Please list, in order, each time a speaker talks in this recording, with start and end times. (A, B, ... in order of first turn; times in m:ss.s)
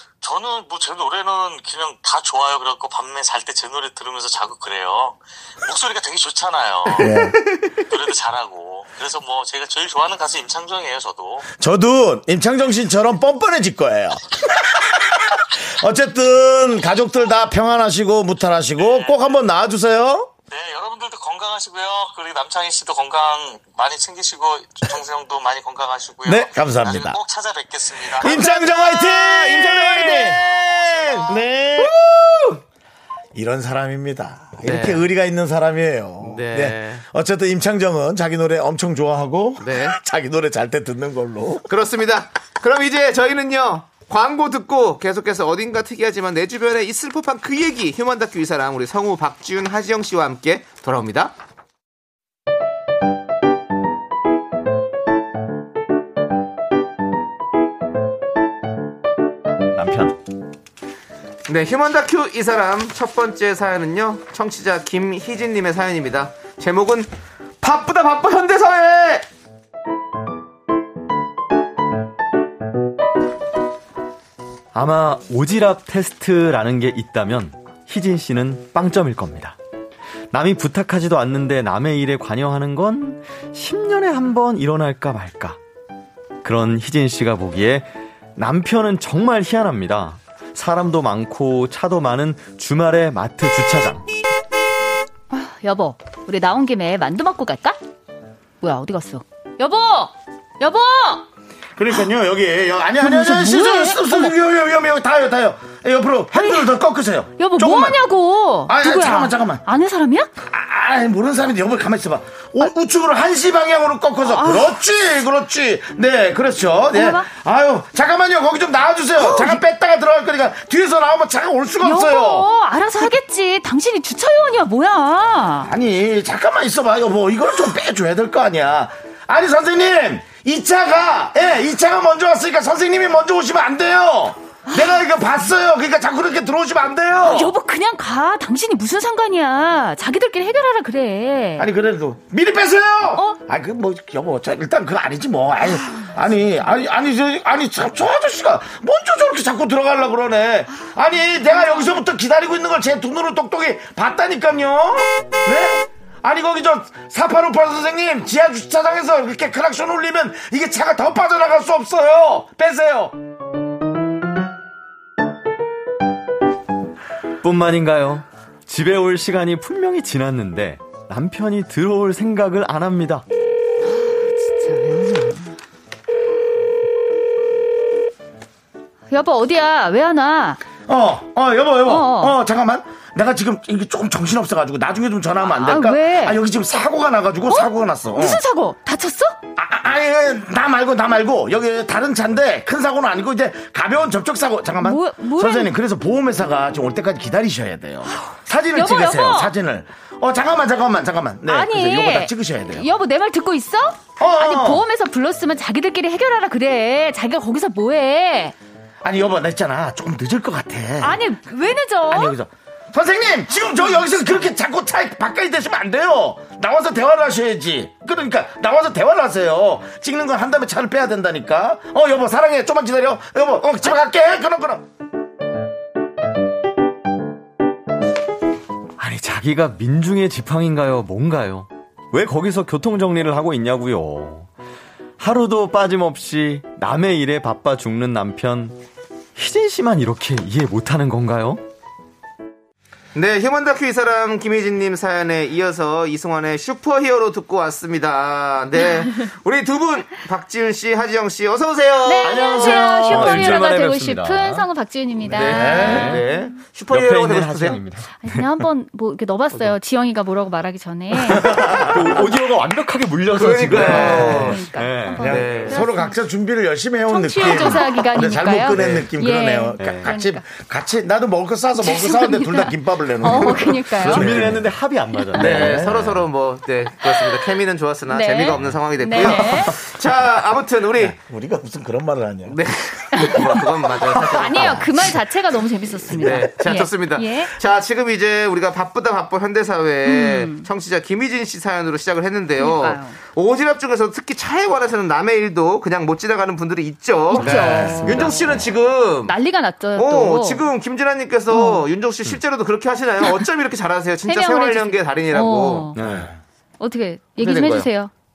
0:00.2-0:07.1 A
0:07.0-0:07.4 B
0:07.7-0:11.5 A
0:11.6-0:20.3 B
0:18.8-0:19.3 A
0:20.5-0:28.4 A
0:26.2-0:27.2 B
0:28.2-0:30.4 B
0:28.2-0:32.5 C
0:30.4-0:31.3 A
0:31.3-0:32.1 B
0:33.3-0:41.7 B
0:34.6-0:35.0 C
0:36.2-0:37.0 C
0:39.6-0:40.0 C
0:41.7-0:51.3 C
0:59.7-1:00.2 D
1:01.5-1:07.1 C
1:07.6-1:09.2 C
1:14.7-1:19.6 D
1:20.3-1:25.6 D
1:26.4-1:34.0 D
1:35.3-1:37.8 E
1:38.6-1:41.2 E
1:41.8-1:48.0 B
1:43.0-1:44.3 E
1:46.3-1:46.7 E
1:47.4-1:50.3 E
1:48.6-1:49.6 B
1:50.4-2:02.5 B
1:54.2-1:54.8 E
1:56.9-1:57.3 E
1:59.2-1:59.6 E
2:01.8-2:05.7 E
2:05.6-2:17.5 B
2:14.7-2:15.0 E
2:17.2-2:21.7 E
2:21.6-2:43.2 B
2:47.4-2:53.2 D
2:53.8-2:55.5 E
2:59.1-3:00.6 E
3:00.9-3:08.4 B
3:01.8-3:02.4 E
3:05.4-3:06.4 E
3:07.5-3:09.4 E
3:09.6-3:22.9 B
3:14.8-3:15.7 E
3:18.0-3:19.5 E
3:21.4-3:28.5 E
3:24.2-3:24.8 B
3:29.0-3:31.2 B
3:31.0-3:32.4 E
3:32.1-3:44.8 B
3:49.0-3:54.5 D
3:55.2-3:58.8 D
3:59.4-4:01.6 D
4:03.1-4:13.6 C
4:12.0-4:16.2 E
4:12.2-4:14.7 D
4:15.3-4:17.8 C
4:15.3-4:16.1 B
4:15.8-4:16.2 D
4:16.9-4:18.5 D
4:18.1-4:22.3 E
4:21.3-4:25.6 D
4:21.5-4:21.9 B
4:23.3-4:24.6 C
4:23.8-4:26.2 E
4:23.9-4:24.4 B
4:25.2-4:34.7 B
4:25.2-4:25.8 C
4:27.0-4:30.4 E
4:28.7-4:29.1 C
4:29.8-4:30.1 D
4:31.8-4:34.4 E
4:33.4-4:36.2 D
4:35.2-4:35.4 E
4:35.4-4:36.1 B
4:35.4-4:41.2 C
4:37.1-4:37.5 E
4:38.1-4:39.8 E
4:41.0-4:42.6 B
4:42.4-4:44.9 C
4:43.1-4:47.5 E
4:46.1-4:59.4 C
4:50.0-4:50.7 E
4:52.6-4:53.2 E
4:57.3-4:58.6 E
4:57.4-4:58.4 B
4:59.2-5:00.7 E
4:59.9-5:05.9 C
5:01.5-5:01.9 E
5:04.3-5:06.0 E
5:05.9-5:06.3 D
5:06.0-5:06.3 B
5:06.8-5:08.1 E
5:07.4-5:07.9 C